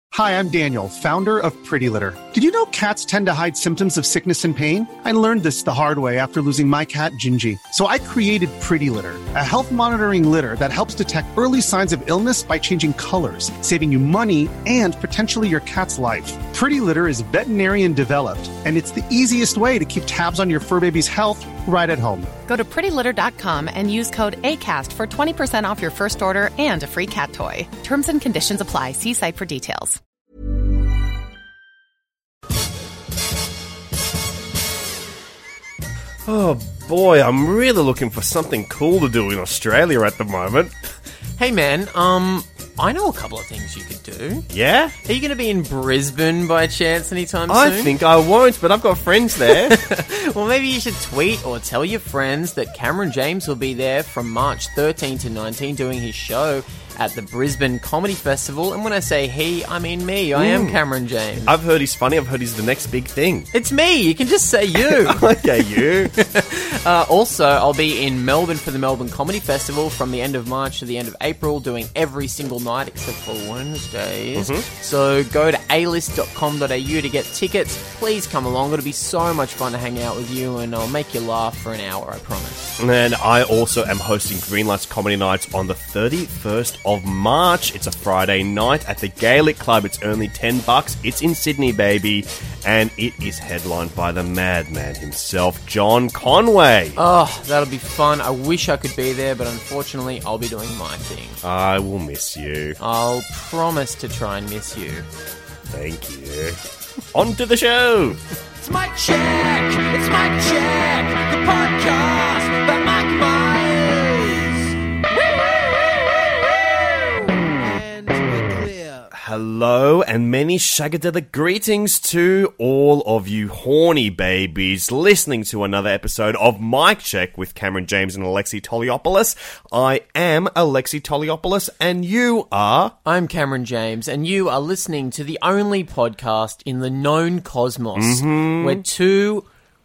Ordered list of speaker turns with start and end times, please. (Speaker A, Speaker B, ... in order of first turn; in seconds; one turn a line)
Speaker A: 0.1-22.3
Speaker B: 22.5-30.0
Speaker C: 36.2-40.7
Speaker D: 41.4-44.5
Speaker C: 44.5-45.0
Speaker D: 45.0-47.9
Speaker C: 47.5-49.8
Speaker D: 49.5-61.5
Speaker C: 60.3-60.8
Speaker C: 61.4-63.5
Speaker D: 63.5-65.2
Speaker C: 64.8-66.1
Speaker D: 66.1-82.7
Speaker C: 74.3-74.7
Speaker C: 82.8-97.0
Speaker D: 97.0-101.4
Speaker C: 101.4-102.8
Speaker D: 102.8-105.0
Speaker C: 105.7-106.6
Speaker C: 107.1-108.2
Speaker E: 108.6-119.1
Speaker C: 119.1-132.9
Speaker D: 133.1-139.5
Speaker C: 138.0-138.8